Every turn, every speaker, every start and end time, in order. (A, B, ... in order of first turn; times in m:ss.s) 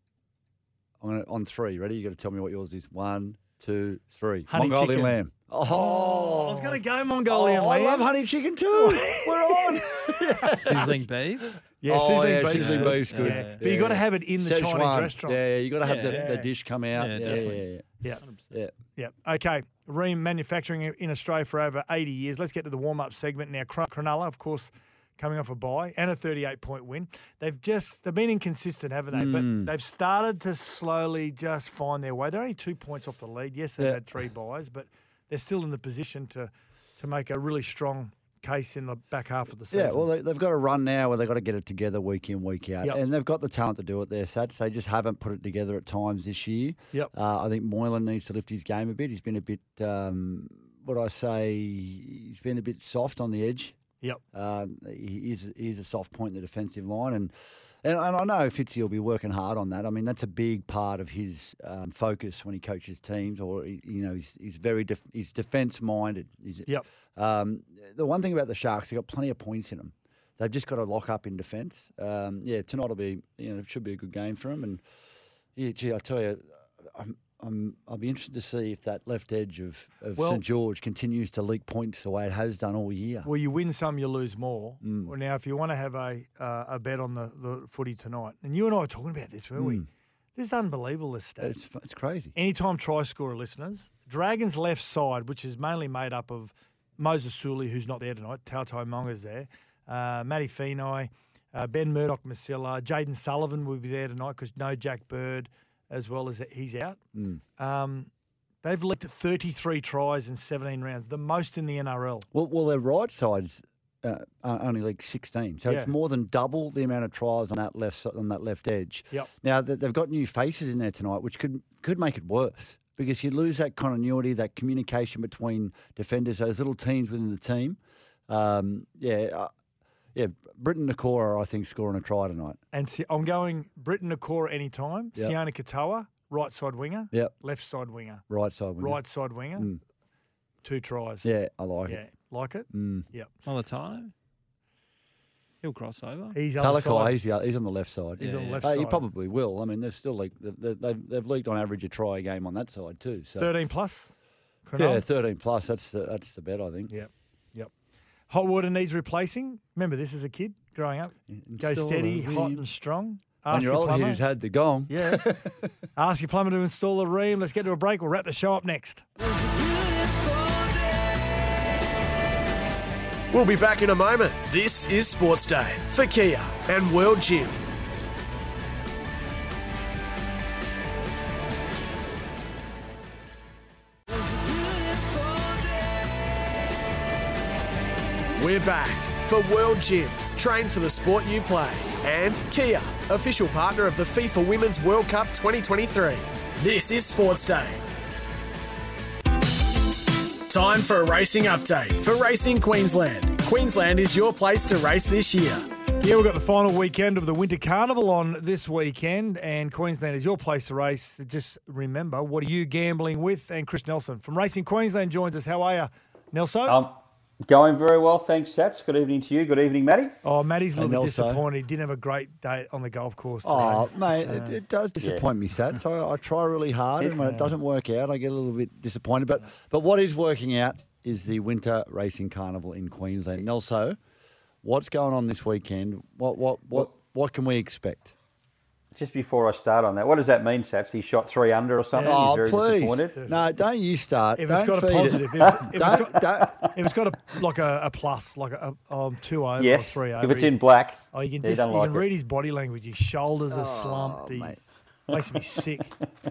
0:01.0-0:11.0 A
0:04.5-0:08.1 B
0:08.7-0:10.8 B
0:10.6-0:11.5 C
0:11.8-0:15.4 B
0:11.9-0:17.8 A
0:12.5-0:13.6 C
0:15.8-0:16.4 C
0:15.9-0:16.5 B
0:16.9-0:17.7 C
0:18.2-0:18.5 C
0:19.0-0:40.1 B
0:29.1-0:29.7 A
0:33.8-0:34.0 A
0:39.7-0:53.8 A
0:54.3-1:14.8 A
1:15.6-1:23.3 A
1:20.2-1:20.4 B
1:23.2-1:31.6 B
1:24.8-1:25.1 A
1:29.6-1:29.9 A
1:31.4-1:32.4 A
1:32.4-1:47.0 B
1:47.2-1:47.4 A
1:47.6-1:48.1 B
1:48.6-1:52.3 B
1:52.3-2:09.5 A
1:55.7-1:55.9 B
2:10.2-2:12.6 A
2:12.7-2:18.2 B
2:18.3-2:19.0 A
2:18.8-2:19.7 B
2:19.6-2:19.8 A
2:20.6-2:21.3 B
2:21.2-2:22.0 A
2:21.9-2:23.3 B
2:22.7-2:23.1 A
2:23.4-2:24.1 C
2:25.6-2:26.4 C
2:26.3-2:27.2 B
2:26.6-2:33.5 A
2:28.2-2:29.1 B
2:28.2-2:28.7 C
2:33.4-2:34.1 B
2:34.7-2:35.0 B
2:34.8-2:36.9 A
2:36.9-2:37.7 B
2:38.3-2:44.2 B
2:41.3-2:42.6 A
2:43.5-2:45.6 A
2:44.9-2:49.0 B
2:53.3-2:57.6 D
3:08.4-3:17.8 D
3:20.5-3:25.7 D
3:26.0-3:36.8 B
3:36.7-3:40.2 E
3:40.2-3:44.6 B
3:40.8-3:41.4 A
3:43.4-3:54.0 A
3:45.0-3:45.2 E
3:47.2-3:47.5 B
3:54.6-3:58.1 A
3:58.9-4:03.2 E
4:01.9-4:02.5 B
4:02.0-4:06.7 A
4:03.1-4:03.4 B
4:04.4-4:10.6 B
4:05.5-4:06.7 E
4:09.6-4:12.1 E
4:11.1-4:16.0 B
4:13.5-4:14.6 A